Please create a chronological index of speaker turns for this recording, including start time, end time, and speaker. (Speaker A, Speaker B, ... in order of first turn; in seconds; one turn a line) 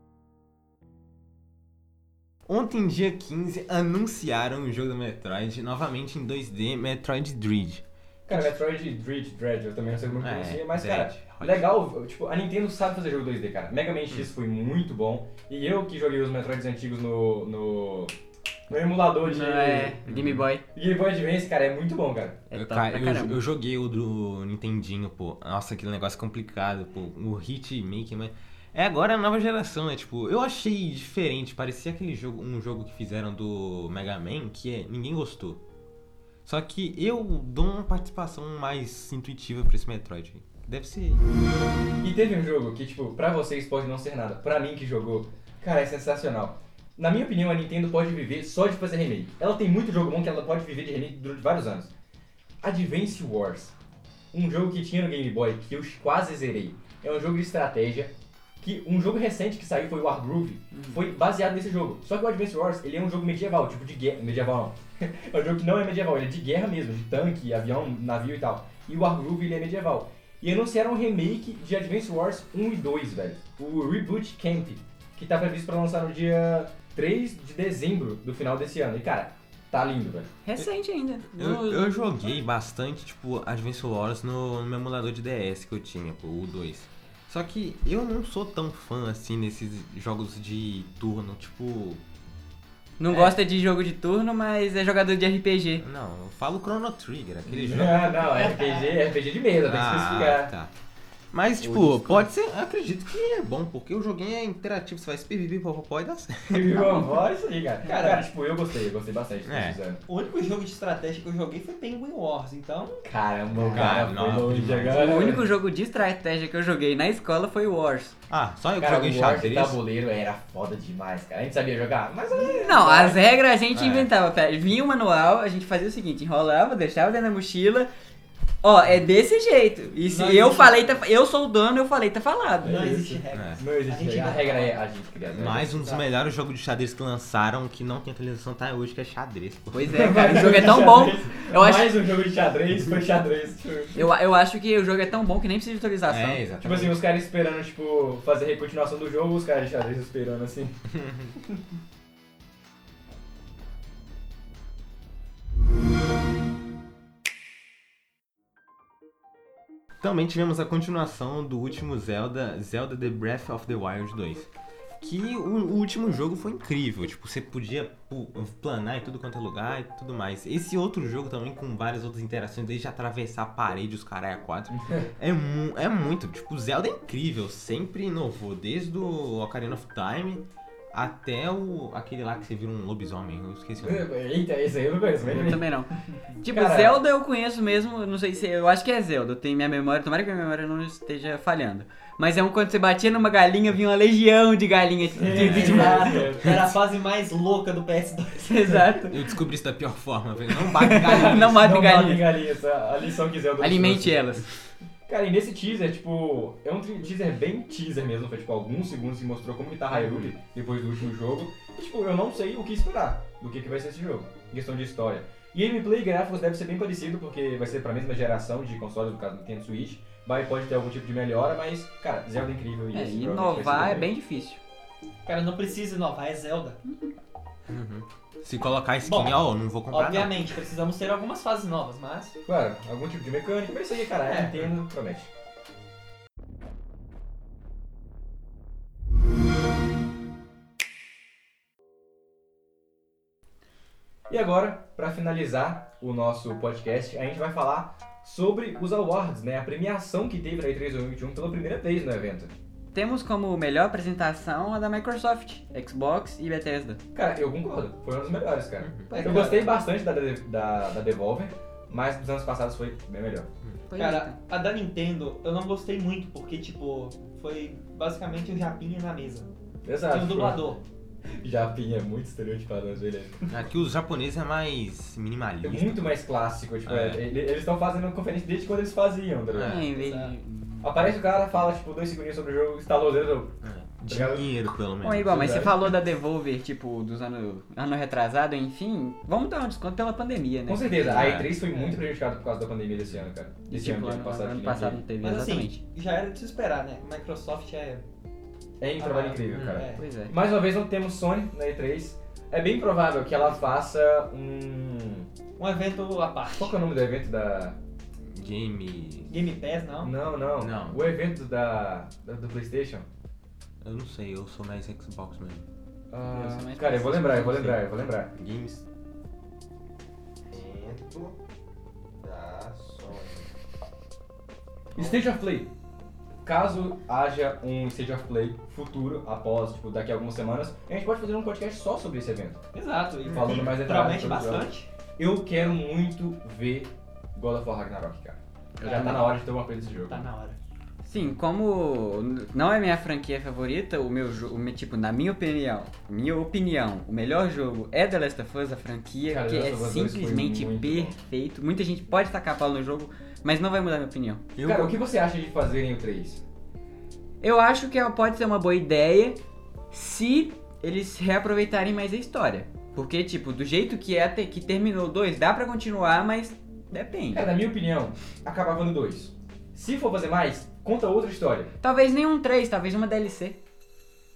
Speaker A: 2.5-8.5
Speaker B: 8.3-18.1
Speaker A: 10.2-11.7
Speaker B: 18.7-20.0
Speaker C: 19.2-20.6
Speaker A: 20.1-20.5
Speaker B: 20.7-22.4
Speaker C: 22.5-23.4
Speaker A: 22.5-35.6
Speaker A: 36.4-41.2
Speaker B: 42.0-51.9
Speaker B: 52.6-53.7
Speaker B: 54.3-80.3
Speaker C: 60.7-61.0
Speaker C: 80.4-82.1
Speaker A: 81.3-92.0
Speaker C: 93.0-95.8
Speaker A: 95.8-98.2
Speaker B: 97.5-100.5
Speaker A: 99.6-100.7
Speaker A: 101.3-106.8
Speaker B: 101.6-102.2
Speaker B: 106.5-110.0
Speaker D: 107.8-108.3
Speaker A: 109.4-109.8
Speaker D: 110.1-113.0
Speaker B: 113.0-115.5
Speaker A: 113.6-115.3
Speaker C: 114.9-118.2
Speaker A: 118.3-119.8
Speaker B: 118.8-123.2
Speaker C: 122.5-127.9
Speaker A: 123.7-124.1
Speaker C: 128.6-132.9
Speaker D: 130.0-131.0
Speaker D: 132.6-134.8
Speaker B: 132.6-135.7
Speaker A: 133.3-133.6
Speaker A: 135.3-140.1
Speaker D: 135.7-136.0
Speaker C: 139.7-142.0
Speaker B: 139.9-144.0
Speaker C: 143.9-146.4
Speaker A: 146.1-147.0
Speaker B: 146.6-150.7
Speaker A: 151.0-151.3
Speaker A: 160.0-164.5
Speaker A: 165.0-184.1
Speaker B: 174.7-175.1
Speaker B: 183.8-185.7
Speaker C: 185.3-196.3
Speaker B: 186.4-187.0
Speaker B: 195.1-196.6
Speaker A: 195.3-195.9
Speaker D: 195.5-198.8
Speaker C: 198.4-199.2
Speaker A: 199.1-201.6
Speaker C: 200.6-202.3
Speaker B: 201.0-204.2
Speaker C: 203.6-204.5
Speaker B: 205.1-224.1
Speaker A: 209.9-210.3
Speaker C: 222.9-224.6
Speaker D: 225.2-226.8
Speaker C: 226.8-227.1
Speaker A: 227.7-230.5
Speaker D: 229.0-232.4
Speaker B: 232.4-235.3
Speaker D: 234.2-234.6
Speaker B: 244.3-252.5
Speaker C: 252.9-257.0
Speaker B: 257.1-263.5
Speaker A: 258.8-259.1
Speaker C: 259.1-259.7
Speaker D: 259.1-259.8
Speaker C: 263.9-264.4
Speaker D: 264.0-269.5
Speaker B: 269.8-270.6
Speaker D: 270.1-270.8
Speaker B: 271.3-273.5
Speaker A: 273.5-276.2
Speaker B: 275.6-279.9
Speaker A: 276.8-277.2
Speaker A: 279.5-280.0
Speaker C: 279.6-281.0
Speaker D: 280.0-280.3
Speaker B: 280.8-283.6
Speaker A: 283.6-285.7
Speaker B: 284.1-284.4
Speaker C: 285.0-291.4
Speaker B: 285.2-285.7
Speaker B: 290.7-295.0
Speaker A: 291.0-291.5
Speaker D: 291.7-292.0
Speaker A: 292.9-293.3
Speaker C: 293.7-295.8
Speaker D: 295.2-298.0
Speaker B: 298.8-305.3
Speaker D: 299.0-300.1
Speaker A: 299.5-299.8
Speaker C: 300.0-300.3
Speaker D: 305.6-306.8
Speaker B: 306.5-307.8
Speaker A: 308.3-309.3
Speaker D: 309.3-310.1
Speaker B: 310.0-313.1
Speaker A: 310.6-311.0
Speaker A: 313.8-315.6
Speaker B: 316.1-318.3
Speaker C: 316.3-317.9
Speaker A: 318.3-318.8
Speaker A: 320.5-321.4
Speaker A: 322.2-323.5
Speaker B: 324.9-325.7
Speaker B: 326.4-332.6
Speaker D: 332.7-334.9
Speaker B: 333.3-334.6
Speaker A: 333.3-333.7
Speaker B: 335.2-340.3
Speaker C: 338.8-339.3
Speaker D: 338.8-340.6
Speaker C: 341.0-354.5
Speaker B: 349.2-351.2
Speaker A: 354.6-354.9
Speaker B: 354.6-356.4
Speaker C: 357.4-359.4
Speaker C: 359.9-367.5
Speaker B: 367.3-371.7
Speaker C: 371.8-373.6